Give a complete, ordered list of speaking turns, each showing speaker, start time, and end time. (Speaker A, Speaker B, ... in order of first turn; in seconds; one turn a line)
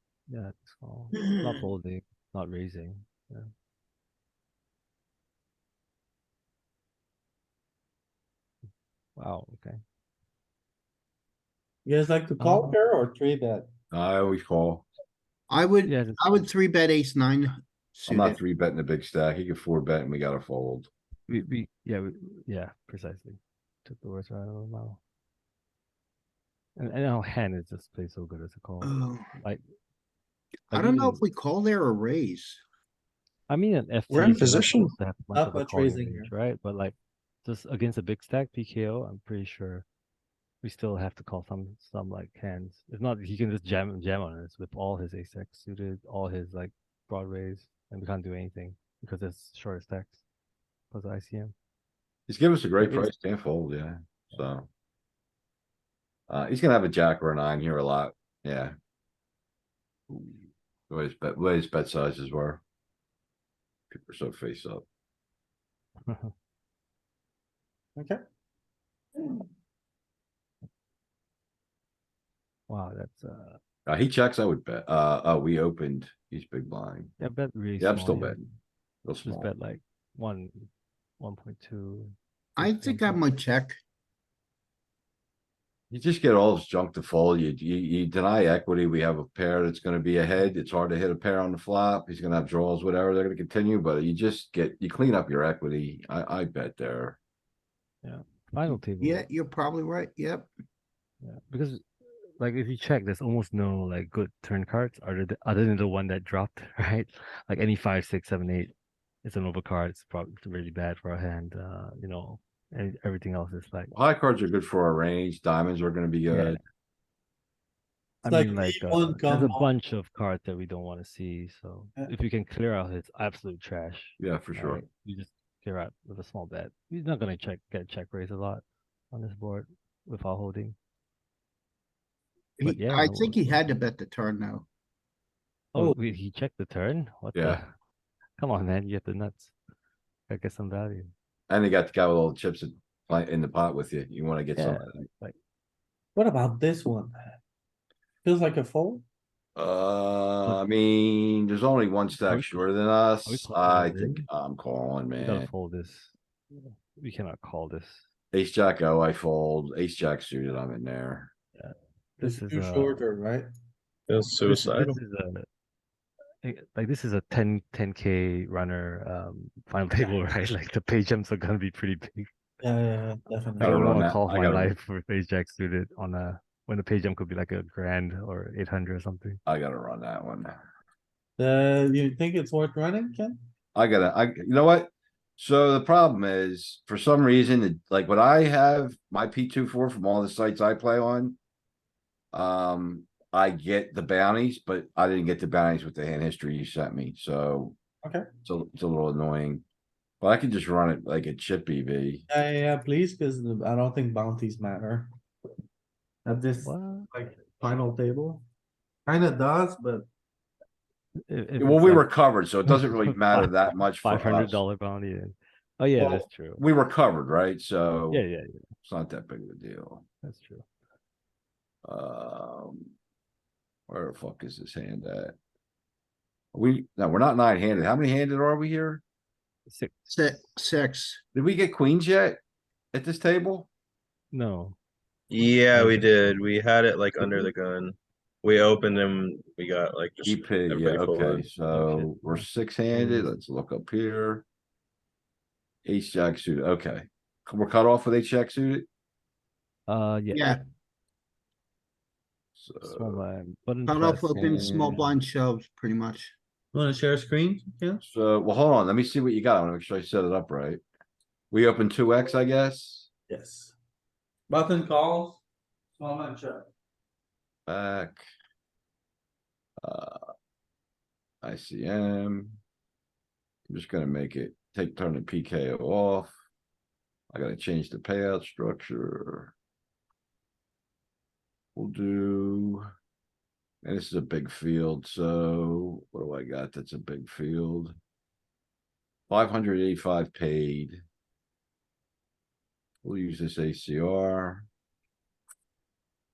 Speaker A: 0.3-3.5
Speaker A: 9.2-9.8
Speaker B: 11.8-13.7
Speaker A: 12.4-12.8
Speaker C: 13.9-14.8
Speaker D: 15.5-18.4
Speaker A: 15.9-16.4
Speaker C: 18.1-20.9
Speaker A: 21.3-25.0
Speaker A: 26.8-29.6
Speaker D: 28.8-29.3
Speaker A: 30.7-31.2
Speaker D: 30.7-32.6
Speaker A: 33.5-36.9
Speaker B: 34.1-34.6
Speaker E: 34.4-34.9
Speaker B: 35.3-36.3
Speaker A: 37.5-39.9
Speaker A: 40.6-50.2
Speaker A: 50.9-51.5
Speaker C: 52.3-54.7
Speaker A: 52.8-53.1
Speaker C: 56.3-58.8
Speaker C: 60.1-62.6
Speaker C: 63.9-64.8
Speaker A: 66.1-66.3
Speaker A: 72.7-73.6
Speaker C: 73.9-77.1
Speaker A: 77.2-78.5
Speaker C: 77.8-78.4
Speaker C: 79.0-79.5
Speaker A: 79.2-80.7
Speaker A: 81.2-83.2
Speaker D: 82.6-83.8
Speaker C: 85.9-97.2
Speaker A: 98.0-99.2
Speaker D: 99.0-100.5
Speaker A: 101.2-101.9
Speaker A: 102.4-113.9
Speaker C: 113.9-116.6
Speaker A: 116.3-116.6
Speaker A: 118.2-130.8
Speaker B: 118.2-119.7
Speaker C: 124.2-124.8
Speaker D: 132.6-134.7
Speaker A: 132.6-133.6
Speaker A: 135.7-137.7
Speaker C: 137.3-137.6
Speaker A: 138.4-139.5
Speaker A: 140.3-141.1
Speaker C: 141.5-145.0
Speaker A: 144.6-145.3
Speaker B: 146.2-147.1
Speaker B: 148.2-149.0
Speaker C: 149.6-155.5
Speaker A: 152.2-152.6
Speaker A: 153.2-154.2
Speaker A: 155.2-158.1
Speaker C: 158.3-161.3
Speaker A: 161.6-163.0
Speaker B: 162.2-163.5
Speaker E: 164.1-165.0
Speaker A: 164.4-165.5
Speaker A: 166.4-172.3
Speaker B: 172.6-174.1
Speaker A: 173.6-179.4
Speaker C: 173.6-174.7
Speaker C: 179.5-180.5
Speaker B: 181.4-183.4
Speaker C: 183.8-191.4
Speaker C: 192.3-197.8
Speaker C: 198.4-199.6
Speaker C: 200.2-202.2
Speaker B: 202.3-205.1
Speaker B: 206.2-208.4
Speaker A: 206.6-207.1
Speaker B: 209.1-210.1
Speaker A: 211.3-212.1
Speaker C: 211.6-214.6
Speaker A: 212.7-216.6
Speaker C: 216.0-218.2
Speaker A: 218.1-218.6
Speaker C: 218.8-220.0
Speaker A: 220.2-220.7
Speaker C: 221.8-222.9
Speaker C: 223.9-225.3
Speaker C: 226.5-229.0
Speaker A: 229.7-230.2
Speaker D: 230.1-231.2
Speaker C: 231.3-232.4
Speaker C: 232.9-233.7
Speaker A: 234.3-234.8
Speaker E: 235.3-241.5
Speaker A: 235.7-236.5
Speaker C: 240.2-244.4
Speaker A: 241.7-243.3
Speaker C: 245.8-248.9
Speaker A: 249.9-250.6
Speaker D: 250.3-250.6
Speaker C: 252.6-253.2
Speaker A: 252.8-255.1
Speaker D: 253.9-256.3
Speaker C: 254.3-255.1
Speaker B: 256.7-258.0
Speaker C: 258.0-260.8
Speaker C: 261.5-263.1
Speaker B: 263.3-263.7
Speaker B: 264.5-265.4
Speaker B: 266.0-266.7
Speaker C: 267.7-268.2
Speaker C: 269.8-270.2
Speaker C: 271.4-272.6
Speaker C: 273.7-276.3
Speaker C: 277.3-279.5
Speaker C: 281.7-282.8
Speaker C: 283.8-287.9
Speaker C: 289.3-291.0
Speaker C: 293.0-294.7